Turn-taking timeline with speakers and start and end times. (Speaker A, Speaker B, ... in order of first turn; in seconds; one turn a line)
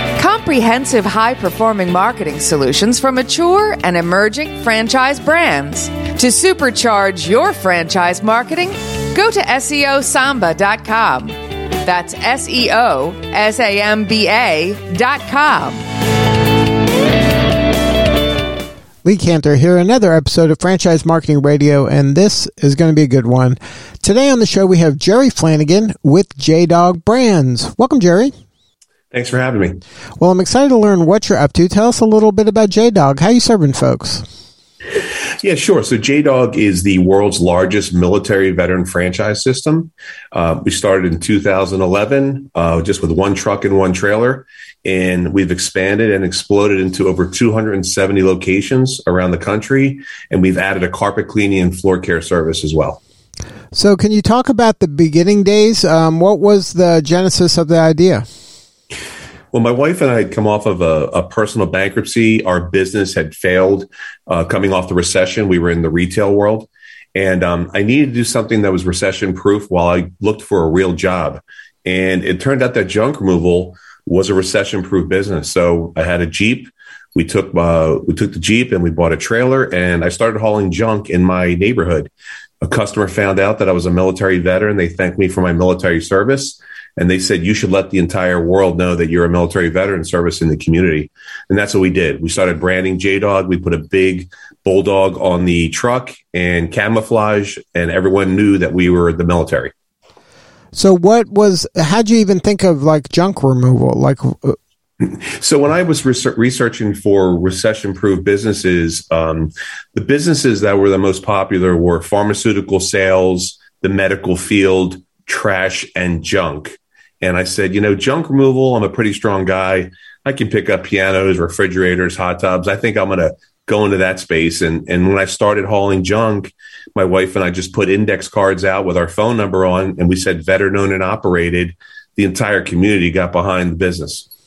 Speaker A: 0.2-15.8
Speaker B: 19.0-28.3
Speaker C: 29.1-29.8
Speaker B: 30.2-34.2
Speaker C: 35.4-53.0
Speaker B: 53.7-58.3
Speaker C: 59.5-82.1
Speaker C: 82.6-99.7
Speaker B: 100.7-104.6
Speaker C: 105.0-134.3